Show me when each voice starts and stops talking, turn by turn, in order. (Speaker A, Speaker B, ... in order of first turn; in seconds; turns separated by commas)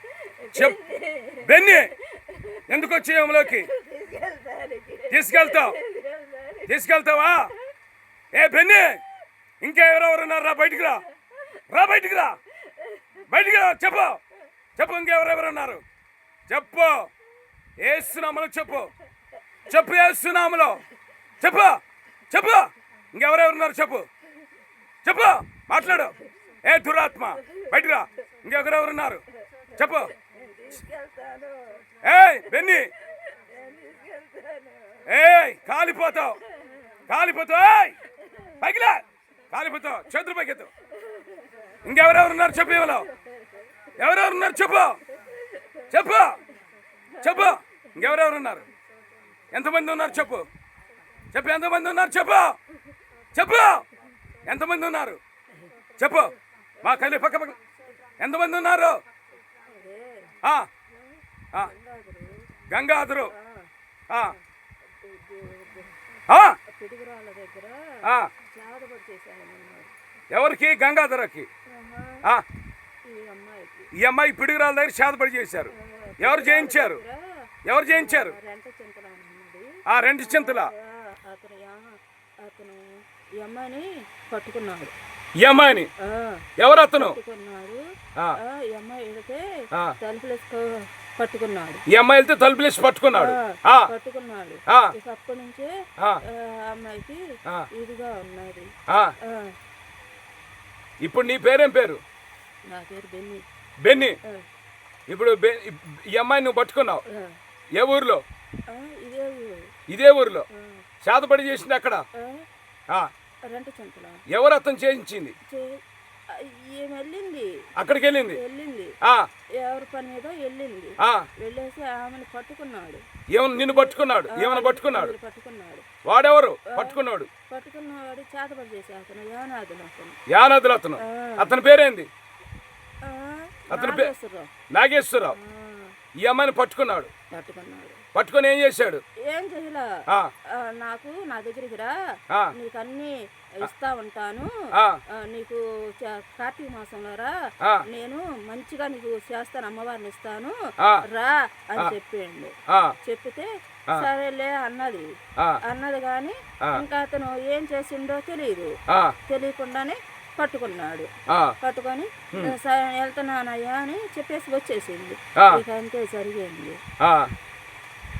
Speaker A: 0.2-6.7, Speaker B: 1.4-1.9, Speaker B: 2.7-3.7, Speaker B: 5.1-5.8, Speaker B: 6.7-7.5, Speaker B: 8.3-9.0, Speaker B: 9.6-11.0, Speaker B: 11.7-12.4, Speaker A: 12.7-13.3, Speaker B: 13.3-14.2, Speaker B: 14.8-15.8, Speaker B: 16.5-17.1, Speaker B: 17.8-18.9, Speaker B: 19.7-20.8, Speaker B: 21.4-24.1, Speaker B: 25.0-29.2, Speaker A: 25.8-26.3, Speaker A: 27.3-28.3, Speaker A: 29.5-35.3, Speaker B: 29.8-30.1, Speaker B: 32.0-32.9, Speaker B: 35.0-36.4, Speaker A: 36.5-37.1, Speaker B: 37.1-38.0, Speaker A: 38.1-38.6, Speaker B: 38.6-40.7, Speaker A: 40.9-41.9, Speaker B: 41.8-43.1, Speaker A: 42.4-43.9, Speaker B: 44.0-45.0, Speaker A: 45.1-45.8, Speaker B: 45.9-46.4, Speaker A: 47.1-47.9, Speaker B: 47.2-48.7, Speaker B: 49.5-50.5, Speaker B: 51.3-52.6, Speaker B: 53.3-53.8, Speaker B: 54.4-55.2, Speaker B: 56.0-57.6, Speaker A: 56.8-57.3, Speaker B: 58.2-59.0, Speaker A: 59.6-60.4, Speaker B: 60.4-60.7, Speaker A: 61.5-62.5, Speaker B: 62.7-63.3, Speaker A: 63.3-64.4, Speaker B: 64.1-64.3, Speaker A: 65.0-67.9, Speaker B: 66.3-66.6, Speaker B: 68.0-68.3, Speaker A: 68.4-69.9, Speaker B: 70.3-71.5, Speaker A: 71.7-72.2, Speaker A: 73.0-73.9, Speaker B: 74.0-77.0, Speaker A: 75.7-77.2, Speaker B: 77.6-78.4, Speaker A: 77.9-84.9, Speaker B: 79.9-80.7, Speaker B: 85.4-85.9, Speaker A: 86.0-87.8, Speaker B: 86.6-87.2, Speaker A: 88.3-91.8, Speaker B: 91.9-93.9, Speaker A: 93.1-97.2, Speaker B: 94.7-94.9, Speaker A: 97.7-98.7, Speaker B: 98.9-99.1, Speaker A: 99.2-99.5, Speaker B: 101.0-102.0, Speaker A: 102.7-103.4, Speaker B: 103.8-104.2, Speaker B: 105.1-107.0, Speaker A: 107.1-107.3, Speaker B: 107.7-108.2, Speaker A: 108.7-109.7, Speaker B: 109.9-110.5, Speaker A: 110.5-110.8, Speaker B: 111.0-112.0, Speaker A: 112.2-112.5, Speaker A: 113.5-114.2, Speaker B: 114.3-115.3, Speaker A: 115.5-117.5, Speaker B: 117.8-118.4, Speaker A: 118.3-118.9, Speaker B: 119.0-119.3, Speaker A: 119.6-123.0, Speaker B: 121.0-121.3, Speaker B: 123.3-125.1, Speaker A: 123.6-125.8, Speaker B: 126.0-127.3, Speaker A: 126.7-130.2, Speaker B: 130.3-132.1, Speaker A: 131.0-131.5, Speaker A: 133.0-134.5, Speaker B: 133.7-134.1, Speaker B: 134.7-135.3, Speaker A: 135.3-135.9, Speaker B: 136.2-137.1, Speaker A: 137.3-138.0, Speaker B: 138.1-139.0, Speaker A: 139.2-139.9, Speaker A: 140.5-141.9, Speaker A: 142.5-144.5, Speaker B: 144.7-145.0, Speaker A: 145.1-155.1, Speaker B: 150.8-151.0, Speaker B: 152.7-152.9, Speaker A: 155.6-158.7, Speaker B: 158.9-159.1, Speaker A: 159.3-161.1, Speaker B: 161.3-161.5, Speaker A: 161.6-166.8, Speaker B: 165.4-165.6, Speaker B: 167.0-167.3